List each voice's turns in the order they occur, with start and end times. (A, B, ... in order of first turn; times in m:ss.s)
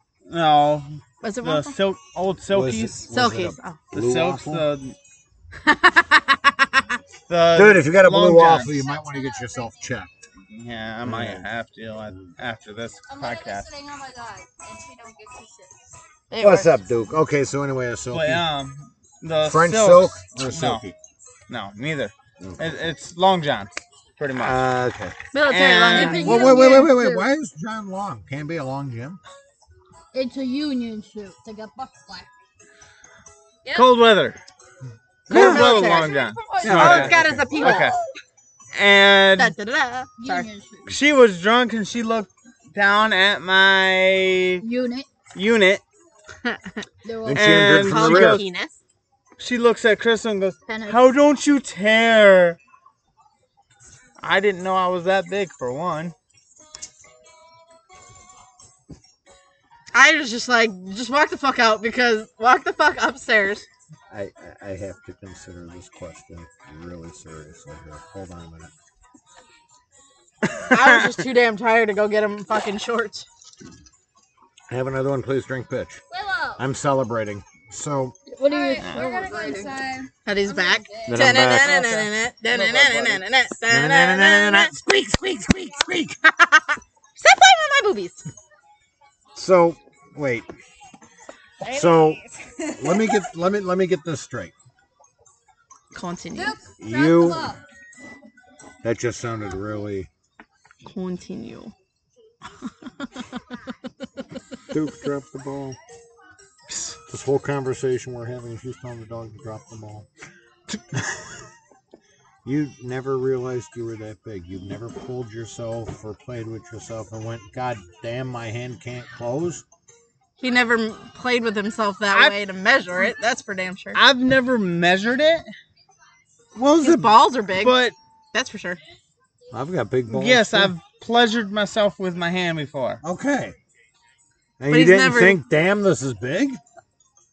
0:00.3-0:03.0 A
0:01.2-0:01.7 B
0:02.5-0:04.7 C
0:03.1-0:03.8 B
0:03.9-0:05.0 A
0:05.6-0:06.8 B
0:07.3-0:08.8 A
0:07.5-0:10.2 C
0:08.7-0:09.9 D
0:10.4-0:13.7 A
0:11.0-0:11.4 C
0:13.0-0:15.8 D
0:16.3-0:16.8 B
0:16.4-0:18.4 C
0:18.1-0:20.8 A
0:19.4-0:21.0 C
0:21.5-0:24.6 A
0:22.4-0:22.8 C
0:24.4-0:25.2 C
0:25.3-0:27.0 B
0:25.4-0:26.3 A
0:25.9-0:27.3 E
0:26.2-0:29.2 C
0:30.1-0:32.3 E
0:33.6-0:34.0 D
0:33.7-0:34.4 A
0:35.3-0:35.8 C
0:35.3-0:38.0 B
0:35.3-0:38.0 A
0:35.5-0:37.0 D
0:36.6-0:37.7 C
0:38.7-0:39.6 A
0:39.4-0:40.5 B
0:40.2-0:41.0 E
0:40.9-0:44.6 A
0:44.6-0:45.1 E
0:45.3-0:45.8 A
0:47.0-0:47.7 E
0:47.3-0:48.4 C
0:47.3-0:48.4 A
0:47.7-0:48.7 B
0:49.4-0:52.6 A
0:50.7-0:51.1 E
0:54.2-0:56.1 A
0:59.9-1:03.7 B
1:04.1-1:08.7 C
1:10.4-1:11.2 A
1:10.7-1:13.3 B
1:14.7-1:16.0 C
1:16.1-1:16.6 D
1:16.6-1:18.2 C
1:18.3-1:19.8 E
1:18.4-1:21.4 D
1:18.8-1:19.1 A
1:20.2-1:24.7 B
1:21.1-1:22.0 C
1:21.5-1:21.8 A
1:22.5-1:23.2 C
1:23.7-1:26.2 C
1:26.3-1:28.2 B
1:29.4-1:30.5 C
1:31.6-1:33.1 B
1:31.7-1:32.2 C
1:32.8-1:34.5 C
1:35.9-1:36.6 B
1:36.3-1:37.6 D
1:36.8-1:37.5 C
1:38.8-1:40.1 C
1:40.8-1:41.7 B
1:44.7-1:45.8 C
1:46.7-1:47.0 A
1:47.1-1:50.1 C
1:52.4-1:59.6 C
2:00.4-2:04.0 B
2:04.0-2:05.5 A
2:06.6-2:07.0 C
2:06.8-2:07.8 B
2:06.8-2:08.0 A
2:08.3-2:08.8 B
2:09.5-2:10.7 C
2:10.1-2:13.0 A
2:13.0-2:13.6 C
2:14.6-2:16.6 C
2:14.7-2:15.4 B